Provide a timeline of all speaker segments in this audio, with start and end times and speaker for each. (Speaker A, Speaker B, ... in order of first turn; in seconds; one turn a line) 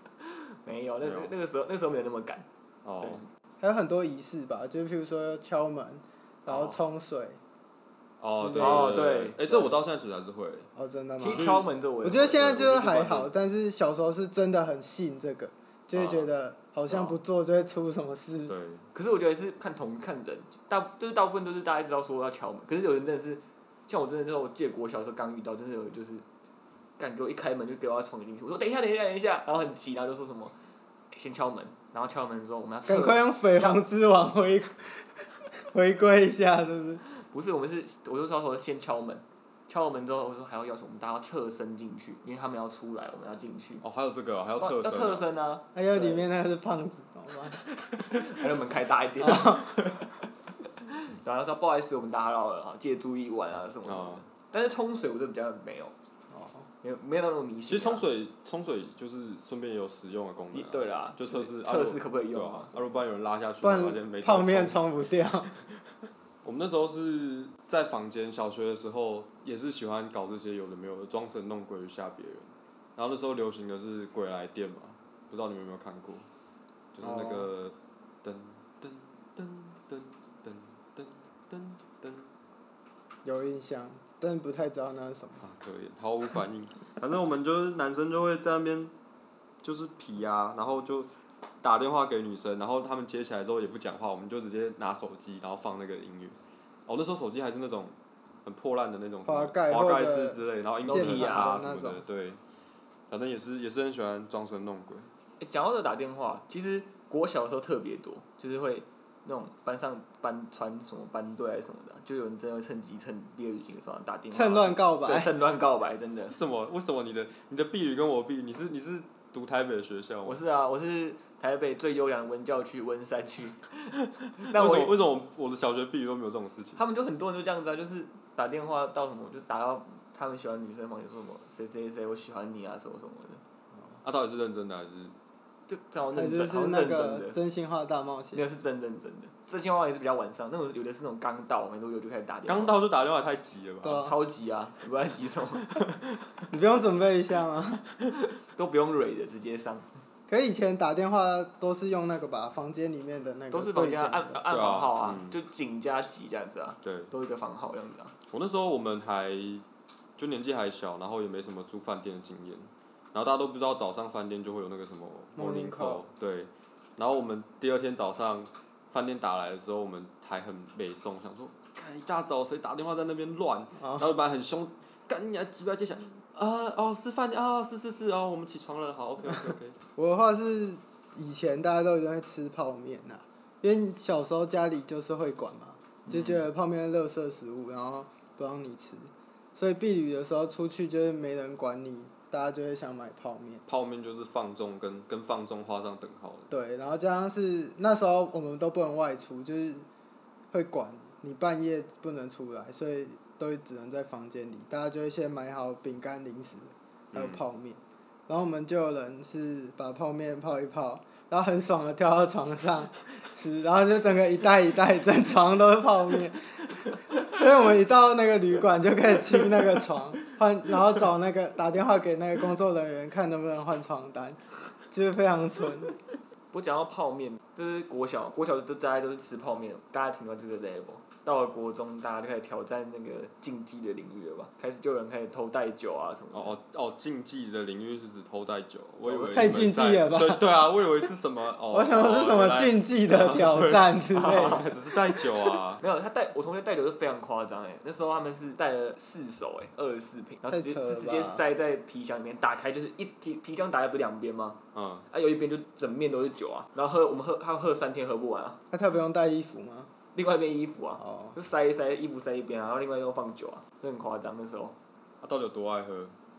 Speaker A: 0.2-2.5
Speaker B: 1.0-1.3
Speaker B: 2.8-3.2
Speaker A: 3.0-3.3
Speaker C: 3.6-7.4
Speaker B: 8.2-10.7
Speaker C: 8.4-9.0
Speaker A: 8.6-9.8
Speaker C: 10.8-18.5
Speaker A: 11.2-13.3
Speaker B: 11.3-11.7
Speaker B: 12.5-13.2
Speaker B: 15.9-16.3
Speaker A: 16.9-17.2
Speaker B: 18.5-18.8
Speaker A: 18.9-26.2
Speaker A: 27.0-30.5
Speaker A: 31.1-33.8
Speaker C: 32.9-35.1
Speaker C: 35.6-37.0
Speaker A: 37.2-43.8
Speaker B: 43.8-45.2
Speaker A: 44.6-46.2
Speaker C: 45.8-47.6
Speaker A: 48.1-50.1
Speaker C: 49.2-49.7
Speaker A: 50.8-56.0
Speaker B: 53.8-54.2
Speaker C: 56.3-56.7
Speaker A: 56.8-58.1
Speaker B: 57.7-64.8
Speaker A: 60.5-62.8
Speaker C: 63.6-65.6
Speaker B: 66.4-76.2
Speaker B: 77.0-82.3
Speaker C: 77.0-77.5
Speaker C: 83.2-85.4
Speaker B: 85.4-88.9
Speaker B: 89.6-91.1
Speaker B: 91.6-102.4
Speaker C: 99.2-102.0
Speaker A: 100.9-101.5
Speaker B: 103.1-105.1
Speaker A: 105.4-116.4
Speaker C: 114.3-115.3
Speaker B: 116.3-120.4
Speaker A: 120.2-125.0
Speaker B: 124.5-126.8
Speaker A: 126.8-133.4
Speaker B: 134.0-135.1
Speaker A: 135.7-137.4
Speaker C: 136.1-138.4
Speaker A: 138.3-142.8
Speaker B: 142.5-144.1
Speaker A: 143.8-145.8
Speaker C: 143.9-144.1
Speaker C: 146.5-147.8
Speaker A: 147.9-149.9
Speaker C: 150.3-154.4
Speaker A: 153.5-158.1
Speaker B: 154.5-155.4
Speaker B: 156.8-157.1
Speaker B: 158.3-159.6
Speaker B: 160.2-179.8
Speaker C: 165.4-166.0
Speaker C: 173.8-174.1
Speaker C: 180.0-193.6
Speaker A: 186.1-186.4
Speaker B: 193.7-196.5
Speaker C: 196.5-199.9
Speaker C: 200.5-225.9
Speaker B: 207.1-207.5
Speaker A: 226.5-236.6
Speaker B: 236.3-245.8
Speaker A: 239.0-239.7
Speaker C: 239.3-240.5
Speaker C: 241.7-244.6
Speaker A: 244.1-244.7
Speaker A: 245.8-258.6
Speaker C: 250.5-251.4
Speaker B: 254.7-255.1
Speaker C: 258.7-259.9
Speaker A: 260.1-264.8
Speaker C: 261.0-261.4
Speaker B: 265.2-266.1